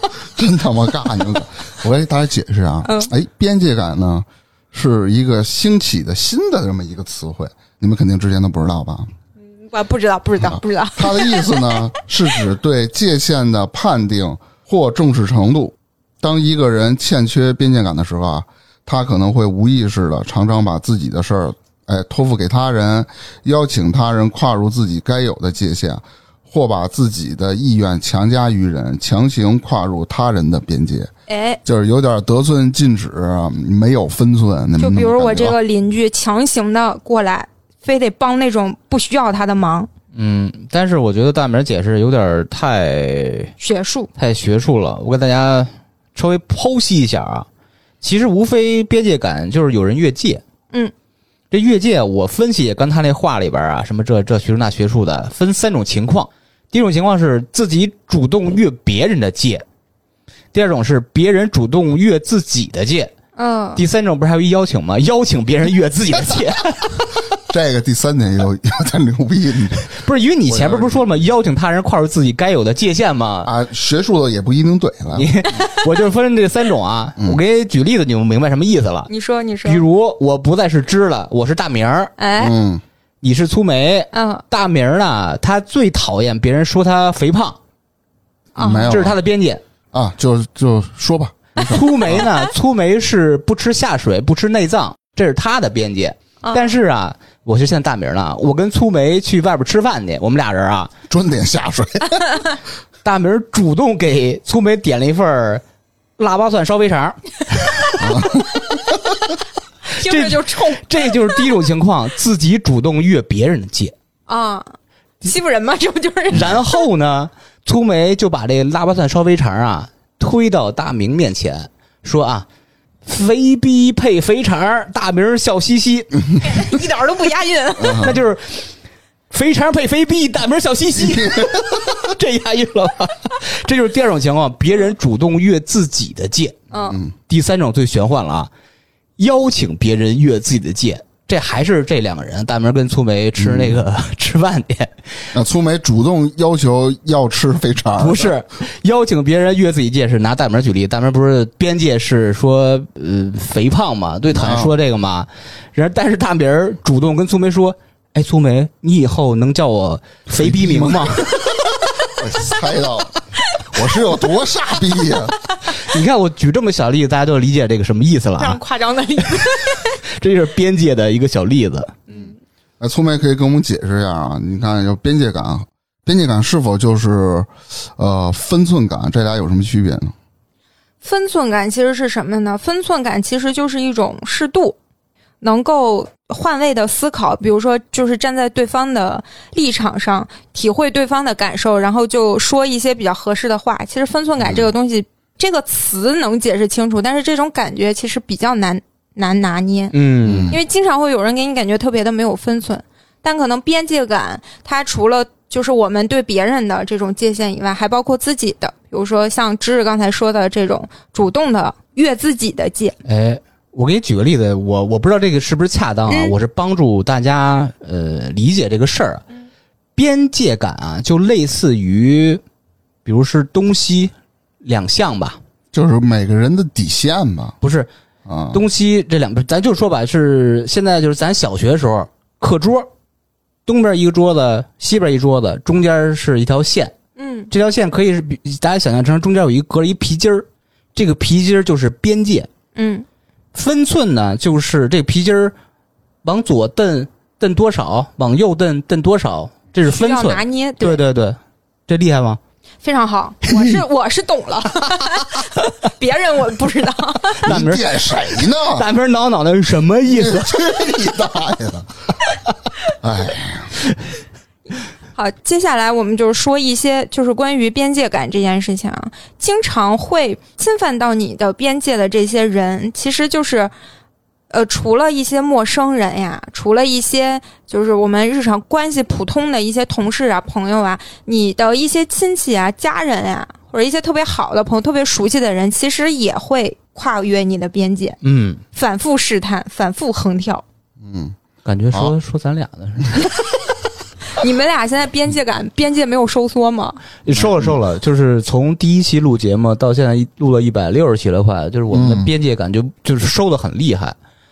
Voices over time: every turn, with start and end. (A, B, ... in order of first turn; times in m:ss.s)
0:00.2-0:09.1 A
0:02.8-0:03.1 B
0:09.5-0:12.0 B
0:10.4-0:31.1 A
0:31.3-0:31.6 B
0:31.6-0:35.6 A
0:34.8-0:39.9 B
0:40.1-0:43.5 C
0:43.6-0:44.1 B
0:44.2-0:47.5 C
0:48.0-0:50.4 C
0:51.5-0:59.6 C
1:00.5-1:03.1 C
1:03.4-1:03.8 B
1:03.8-1:07.1 C
1:07.5-1:09.9 A
1:09.9-1:13.5 C
1:10.5-1:11.1 A
1:13.4-1:15.3 A
1:15.2-1:19.1 C
1:19.1-1:19.8 B
1:19.6-1:22.1 C
1:22.2-1:22.5 B
1:22.4-1:22.8 A
1:23.2-1:27.6 C
1:24.1-1:24.4 B
1:28.6-1:29.0 B
1:28.6-1:29.2 A
1:28.9-1:29.6 C
1:29.9-1:32.3 A
1:31.7-1:40.9 C
1:36.4-1:36.8 B
1:41.1-1:42.3 A
1:43.0-1:45.6 C
1:46.2-1:48.3 C
1:48.0-1:48.7 A
1:49.9-1:51.4 B
1:50.0-1:53.9 C
1:54.3-1:56.8 B
1:56.3-2:02.5 C
2:03.0-2:06.4 C
2:06.4-2:08.1 B
2:07.8-2:08.2 A
2:08.0-2:08.7 C
2:09.3-2:16.6 C
2:11.0-2:11.8 A
2:16.7-2:17.0 B
2:16.9-2:17.1 A
2:17.3-2:18.5 C
2:19.2-2:24.9 C
2:23.4-2:23.8 A
2:25.3-2:28.4 A
2:28.0-2:41.7 C
2:34.3-2:34.7 A
2:40.4-2:41.3 A
2:42.2-2:43.2 A
2:43.7-2:45.4 A
2:45.7-2:48.6 C
2:48.4-2:50.0 B
2:49.8-2:52.0 C
2:52.1-2:52.4 B
2:52.1-3:00.1 A
3:01.0-3:04.8 B
3:05.4-3:20.0 B
3:14.4-3:14.7 A
3:19.9-3:20.6 C
3:20.2-3:20.6 A
3:20.5-3:33.0 B
3:33.0-3:39.2 C
3:36.1-3:36.4 B
3:40.0-3:42.4 C
3:43.0-3:44.1 C
3:44.6-3:45.4 C
3:45.7-3:47.6 A
3:47.6-3:47.9 C
3:48.3-3:48.6 A
3:48.5-3:52.9 C
3:53.7-3:57.0 C
3:57.2-3:57.5 B
3:57.5-4:02.5 C
4:02.8-4:03.1 B
4:03.5-4:05.5 C
4:06.2-4:12.4 C
4:09.9-4:11.0 B
4:12.8-4:17.4 B
4:17.4-4:20.7 C
4:17.5-4:18.8 A
4:20.1-4:21.9 A
4:23.0-4:23.8 A
4:25.2-4:33.7 B
4:34.5-4:48.2 B
4:48.2-4:48.6 C
4:48.7-4:50.6 B
4:51.0-4:51.4 A
4:51.6-4:53.3 C
4:54.3-4:57.0 B
4:57.2-5:04.2 C
5:01.9-5:02.3 A